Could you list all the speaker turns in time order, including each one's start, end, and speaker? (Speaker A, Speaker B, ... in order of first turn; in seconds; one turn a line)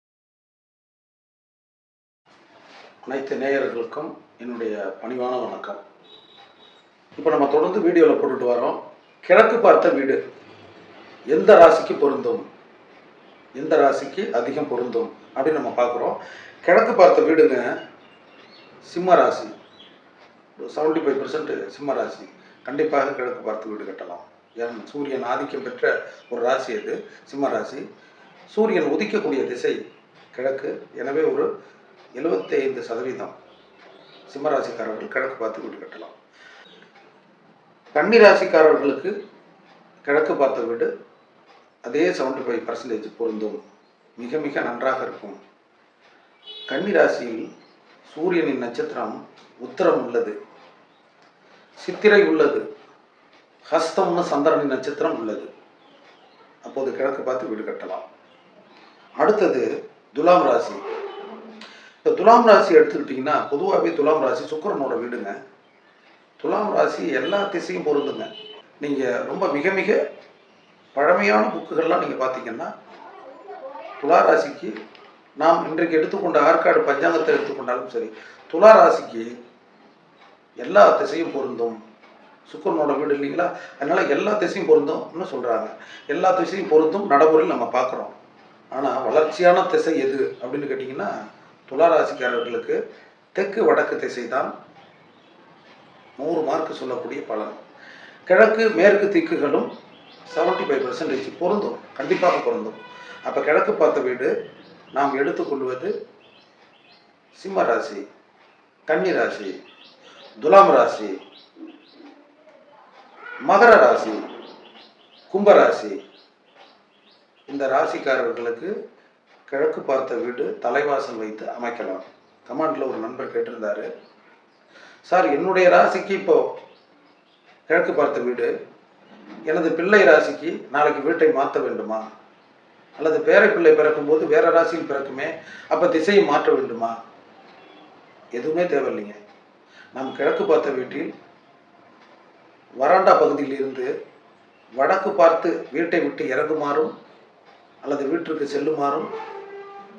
Speaker A: 3.0-5.8
Speaker A: 7.2-10.2
Speaker A: 11.3-12.5
Speaker A: 13.6-17.7
Speaker A: 18.9-19.5
Speaker A: 20.6-27.8
Speaker A: 28.5-29.8
Speaker A: 30.3-31.5
Speaker A: 32.2-33.4
Speaker A: 34.3-36.1
Speaker A: 38.0-39.1
Speaker A: 40.1-40.9
Speaker A: 41.9-43.6
Speaker A: 44.2-45.4
Speaker A: 46.7-47.5
Speaker A: 48.1-50.4
Speaker A: 51.8-52.6
Speaker A: 53.7-55.5
Speaker A: 56.6-58.0
Speaker A: 59.2-60.8
Speaker A: 62.0-65.3
Speaker A: 66.4-68.3
Speaker A: 68.8-70.0
Speaker A: 71.0-72.7
Speaker A: 74.0-74.7
Speaker A: 75.4-79.3
Speaker A: 80.6-81.8
Speaker A: 82.5-88.2
Speaker A: 88.7-91.1
Speaker A: 91.7-92.8
Speaker A: 93.3-94.5
Speaker A: 96.2-97.6
Speaker A: 98.3-99.7
Speaker A: 100.3-104.3
Speaker A: 105.0-105.9
Speaker A: 107.4-108.0
Speaker A: 108.9-109.6
Speaker A: 110.4-111.2
Speaker A: 113.5-114.3
Speaker A: 115.3-116.0
Speaker A: 117.5-118.7
Speaker A: 119.5-123.9
Speaker A: 125.1-126.5
Speaker A: 127.7-128.5
Speaker A: 129.5-132.0
Speaker A: 133.0-136.9
Speaker A: 138.4-139.2
Speaker A: 139.9-141.1
Speaker A: 142.8-143.9
Speaker A: 144.8-146.9
Speaker A: 147.8-149.1